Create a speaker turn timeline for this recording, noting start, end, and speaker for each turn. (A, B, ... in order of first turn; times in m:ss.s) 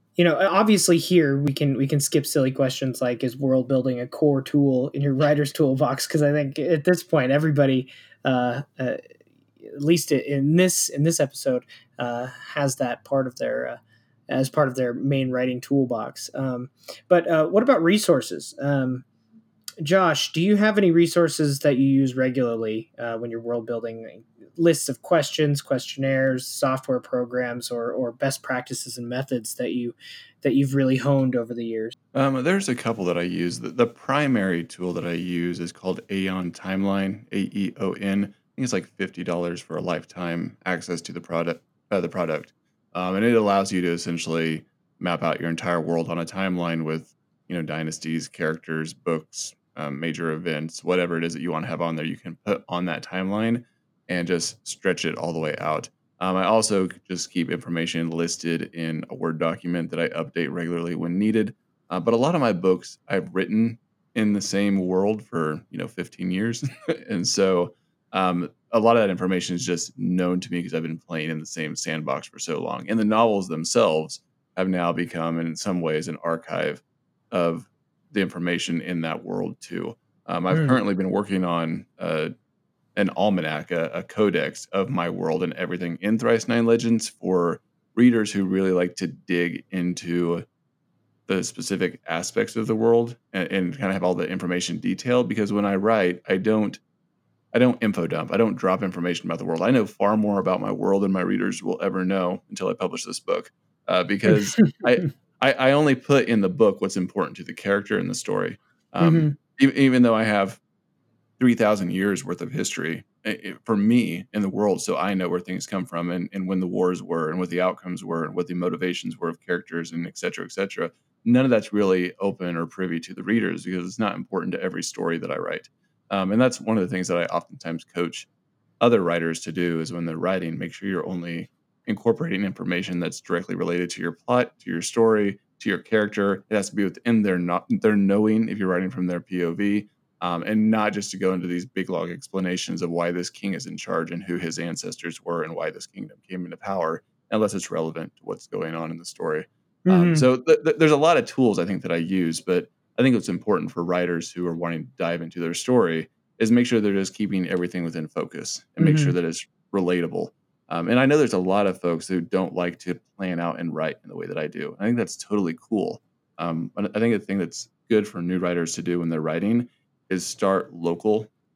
0:00.2-0:09.0 A
0:09.7-0:19.0 A
0:19.8-0:31.9 A
0:32.1-1:22.3 B
1:20.5-1:20.8 A
1:22.9-1:30.4 B
1:31.3-1:36.8 B
1:37.5-1:50.6 B
1:49.0-1:49.3 A
1:51.4-2:08.3 B
2:08.8-2:51.3 B
2:29.8-2:30.2 A
2:38.8-2:39.1 A